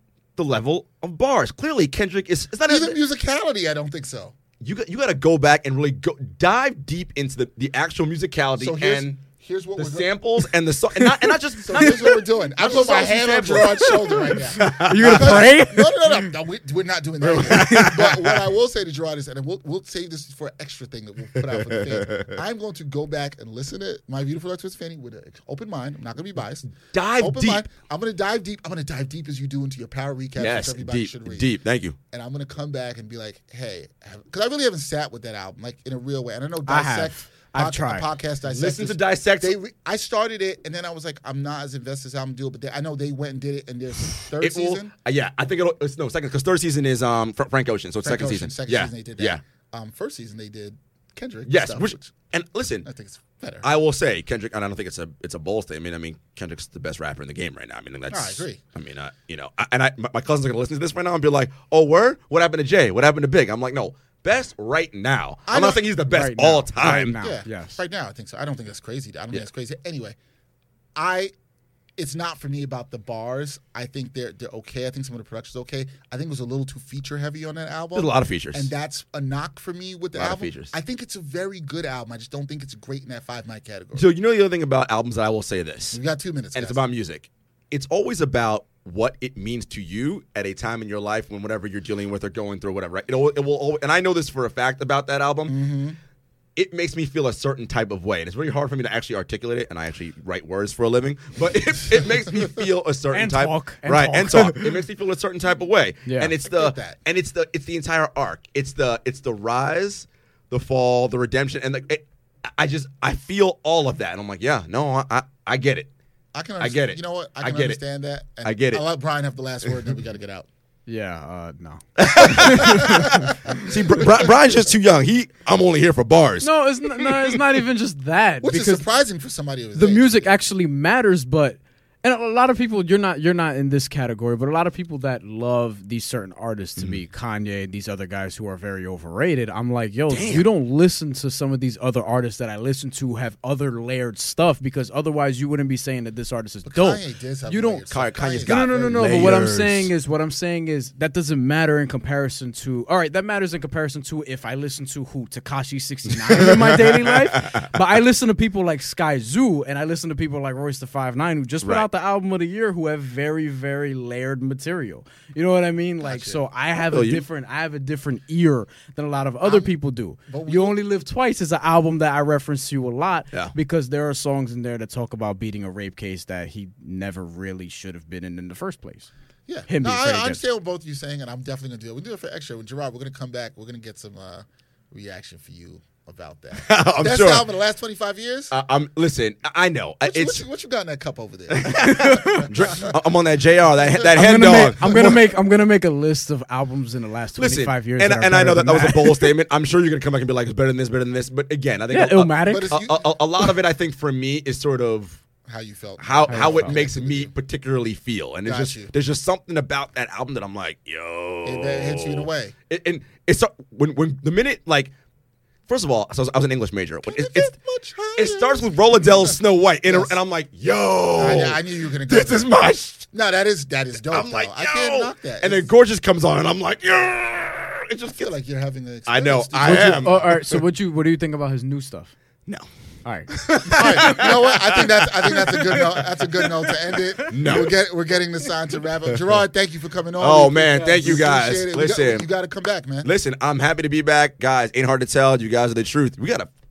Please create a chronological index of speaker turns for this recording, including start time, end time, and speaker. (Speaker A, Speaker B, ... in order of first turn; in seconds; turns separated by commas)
Speaker A: 0.4-3.0, Speaker B: 2.7-4.3, Speaker A: 4.6-9.2, Speaker B: 8.6-10.1, Speaker A: 9.8-15.5, Speaker C: 11.0-12.2, Speaker B: 11.7-31.5, Speaker C: 13.8-16.3, Speaker A: 17.2-18.3, Speaker C: 17.5-17.9, Speaker A: 21.5-22.3, Speaker A: 26.8-27.7, Speaker A: 30.4-31.9, Speaker B: 32.1-44.9, Speaker C: 36.7-38.1, Speaker A: 38.5-39.6, Speaker A: 44.2-49.4, Speaker B: 48.0-52.1, Speaker A: 51.5-52.9, Speaker B: 52.8-53.7, Speaker A: 53.6-67.2, Speaker B: 58.1-58.6, Speaker B: 65.5-65.8, Speaker C: 66.1-67.8, Speaker B: 66.8-70.2, Speaker B: 70.9-71.3, Speaker B: 72.0-84.1, Speaker A: 77.9-78.7, Speaker A: 80.2-80.7, Speaker A: 83.9-86.0, Speaker B: 85.9-86.8, Speaker A: 86.5-95.6, Speaker B: 95.5-96.0, Speaker A: 96.5-112.0, Speaker C: 103.1-104.8, Speaker C: 106.0-106.3, Speaker B: 106.4-107.0, Speaker A: 112.5-115.9, Speaker B: 116.3-120.5, Speaker A: 116.6-117.8, Speaker A: 118.4-118.8, Speaker C: 120.9-123.3, Speaker A: 122.0-127.4, Speaker B: 122.2-124.3, Speaker C: 126.4-128.8, Speaker B: 128.4-130.3, Speaker C: 129.7-147.9, Speaker A: 140.1-140.5, Speaker B: 146.6-149.1, Speaker A: 147.9-149.9, Speaker C: 148.4-179.1, Speaker A: 156.2-157.7, Speaker A: 161.6-161.9, Speaker B: 166.0-166.4, Speaker A: 166.9-167.2, Speaker B: 169.4-169.7, Speaker B: 170.3-170.8, Speaker B: 179.5-188.5, Speaker C: 179.7-180.4, Speaker A: 186.5-187.5, Speaker A: 188.5-190.4, Speaker B: 190.0-192.9, Speaker A: 191.5-195.2, Speaker C: 191.8-192.5, Speaker C: 194.1-199.3, Speaker B: 194.8-195.2, Speaker A: 197.4-205.2, Speaker C: 201.9-202.8, Speaker B: 202.5-203.1, Speaker B: 205.4-207.3, Speaker A: 206.0-214.9, Speaker C: 206.3-206.8, Speaker B: 208.4-208.9, Speaker B: 211.4-212.5, Speaker A: 215.7-217.5, Speaker B: 217.0-220.2, Speaker A: 218.2-223.1, Speaker B: 221.2-222.6, Speaker B: 223.1-225.7, Speaker A: 224.1-228.3, Speaker B: 228.1-230.2, Speaker A: 229.1-230.6, Speaker C: 229.6-232.1, Speaker C: 233.0-233.3, Speaker A: 233.3-236.0, Speaker B: 233.7-243.1, Speaker C: 233.9-234.2, Speaker A: 237.3-237.7, Speaker A: 240.2-242.3, Speaker A: 243.0-246.5